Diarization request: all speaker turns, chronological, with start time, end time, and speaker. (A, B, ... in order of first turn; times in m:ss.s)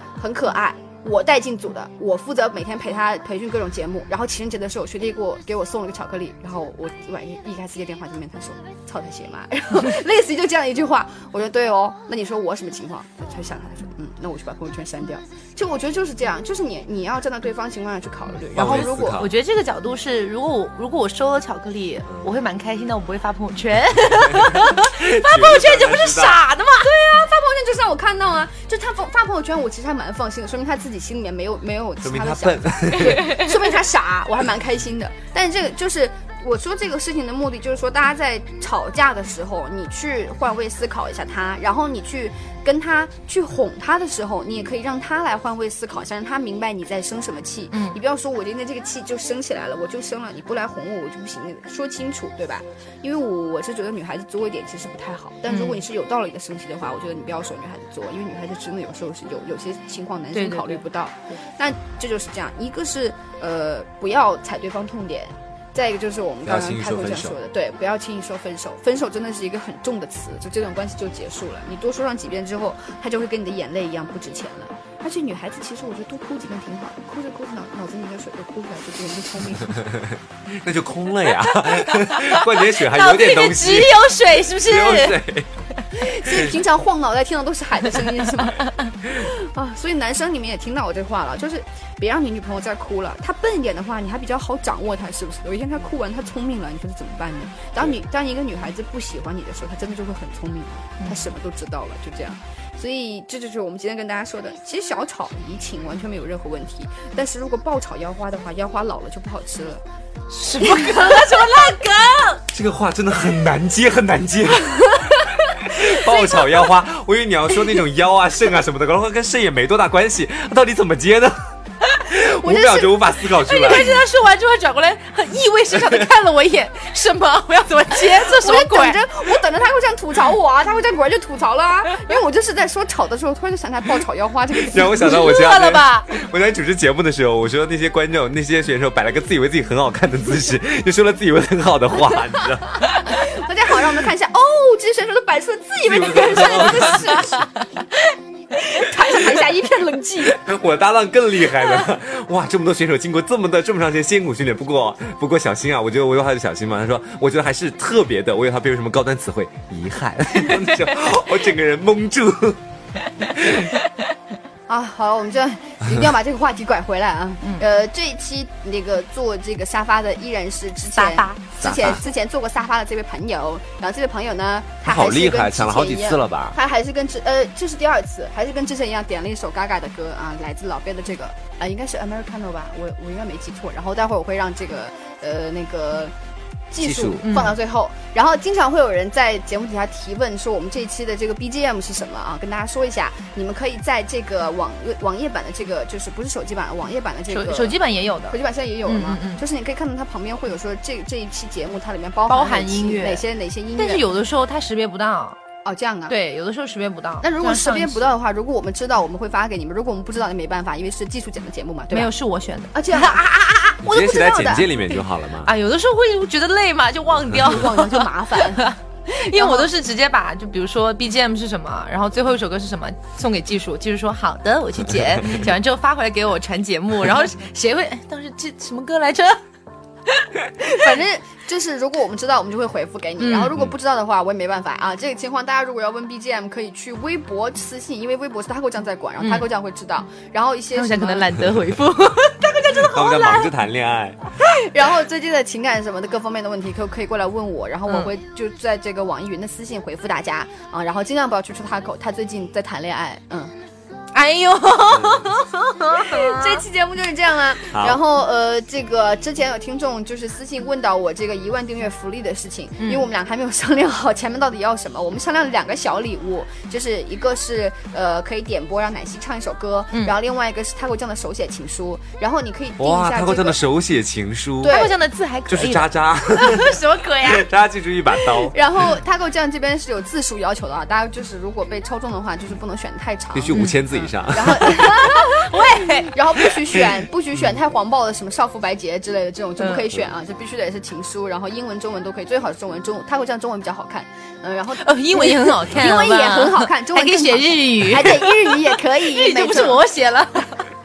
0:00.2-0:19.2 A
0:18.5-0:19.3 B
0:18.6-0:26.9 C
0:24.5-0:26.4 B
0:26.8-1:19.8 A
0:32.0-0:33.4 B
0:32.9-0:33.6 C
0:47.7-0:48.0 C
0:55.5-0:55.8 C
1:00.3-1:00.8 C
1:06.4-1:07.4 B
1:20.0-1:25.5 B
1:21.4-1:25.2 C
1:25.9-1:49.8 A
1:26.2-1:26.5 B
1:28.0-1:28.9 C
1:41.0-1:41.3 C
1:50.3-1:52.4 C
1:50.6-1:51.8 A
1:52.5-2:04.0 B
2:02.2-2:03.9 A
2:03.4-2:09.3 C
2:05.7-2:06.0 B
2:08.0-2:15.2 A
2:14.6-2:22.9 B
2:14.9-2:16.1 C
2:22.9-2:28.0 A
2:25.8-2:27.4 B
2:27.3-2:27.6 C
2:28.5-2:30.4 A
2:30.4-2:42.6 B
2:43.3-2:43.8 C
2:43.4-2:43.6 B
2:44.7-3:06.1 A
2:50.9-2:51.4 C
2:51.6-2:52.0 B
2:54.8-2:56.6 B
3:06.7-3:17.8 A
3:06.8-3:07.2 B
3:07.2-3:07.6 C
3:17.3-3:19.4 C
3:18.3-3:24.0 A
3:22.3-3:23.2 C
3:23.8-3:25.4 C
3:25.6-3:26.2 A
3:26.1-3:28.1 C
3:27.2-3:32.1 A
3:31.9-3:33.2 C
3:32.7-3:34.9 A
3:33.8-3:35.5 B
3:35.4-3:49.4 C
3:37.4-3:39.7 A
3:50.1-3:50.8 C
3:50.6-4:01.4 A
3:53.2-3:53.6 C
3:59.2-3:59.5 C
4:00.7-4:03.3 C
4:02.4-4:03.5 A
4:02.7-4:04.2 B
4:04.4-4:13.5 A
4:14.1-4:16.6 C
4:16.0-4:33.6 A
4:17.7-4:18.0 B
4:22.8-4:23.1 C
4:32.8-4:34.8 B
4:34.6-4:34.9 A
4:34.6-4:37.5 C
4:35.5-4:38.6 B
4:38.4-4:59.9 A
4:43.3-4:45.0 B
4:43.5-4:43.8 C
4:44.6-4:46.2 C
4:49.6-4:49.9 C
4:54.7-5:00.7 C